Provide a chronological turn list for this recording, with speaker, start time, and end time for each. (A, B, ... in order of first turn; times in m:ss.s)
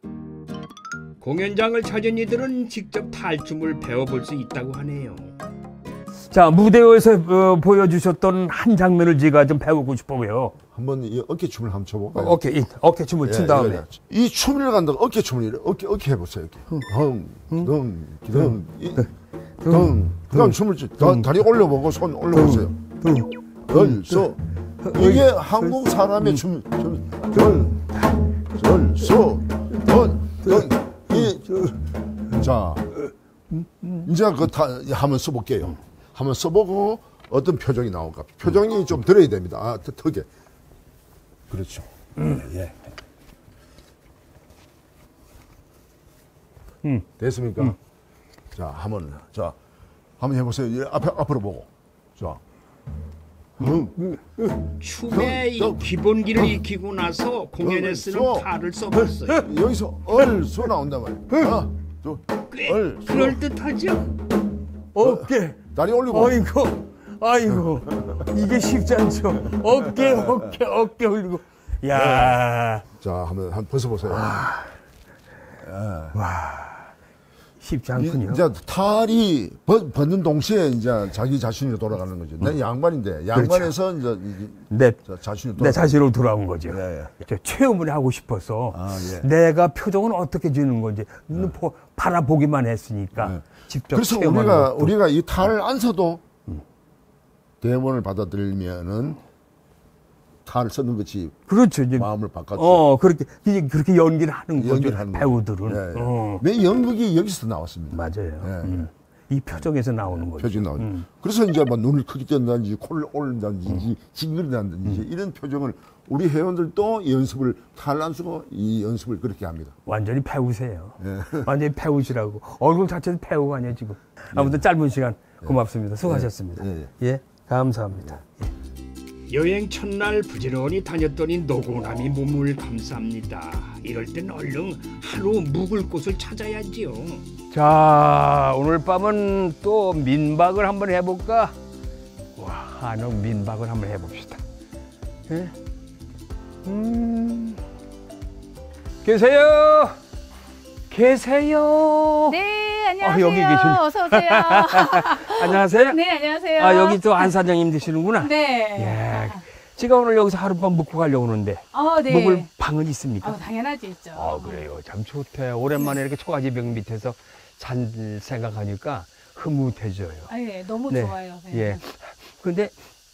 0:01.2-0:05.4 A
0:06.3-0:10.6 B
0:10.7-0:12.4 C
0:12.1-0:13.9 B
0:13.2-0:19.1 C
0:18.3-0:21.4 B
0:19.7-0:22.8 C
0:22.3-0:26.4 B
0:23.7-0:24.4 C
0:24.9-0:27.8 C
0:27.1-0:27.9 B
0:28.6-0:31.7 C
0:29.7-0:31.7 B
0:32.4-0:32.9 C
0:33.6-0:34.1 B
0:34.0-0:40.3 C
0:41.5-0:42.7 C
0:42.2-0:42.5 B
0:47.2-0:47.8 C
0:48.5-0:49.6 C
0:50.2-0:52.4 C
0:53.6-0:54.5 C
0:54.8-0:59.5 A
0:55.1-0:55.8 C
0:57.6-0:58.5 C
0:59.0-1:03.4 C
1:02.5-1:04.1 A
1:05.0-1:12.8 B
1:05.0-1:06.5 C
1:07.5-1:08.2 C
1:09.7-1:10.5 C
1:11.9-1:12.4 C
1:13.0-1:14.3 C
1:14.1-1:14.7 B
1:15.6-1:16.2 C
1:16.1-1:16.9 B
1:17.6-1:18.4 B
1:18.0-1:25.9 C
1:23.3-1:23.7 B
1:24.7-1:25.0 B
1:25.6-1:35.5 B
1:26.7-1:27.1 C
1:28.7-1:29.3 C
1:33.1-1:36.2 C
1:37.6-1:39.2 C
1:40.4-1:41.4 C
1:41.5-1:46.4 B
1:42.0-1:42.8 C
1:44.6-1:48.9 C
1:47.9-1:51.1 B
1:49.5-1:59.8 C
1:59.9-2:08.5 B
2:01.0-2:01.5 C
2:04.3-2:04.6 C
2:05.4-2:07.0 C
2:07.9-2:08.2 C
2:09.3-2:17.3 A
2:17.5-2:21.6 B
2:22.4-2:24.4 B
2:25.3-2:25.6 B
2:26.6-2:27.6 B
2:29.0-2:30.0 B
2:30.9-2:32.4 B
2:32.3-2:37.4 D
2:33.0-2:36.0 B
2:36.6-2:43.4 B
2:38.2-2:39.4 D
2:41.7-2:42.5 D
2:43.2-2:44.6 D
2:44.2-2:50.3 B
2:50.3-2:51.8 D
2:50.9-2:52.8 B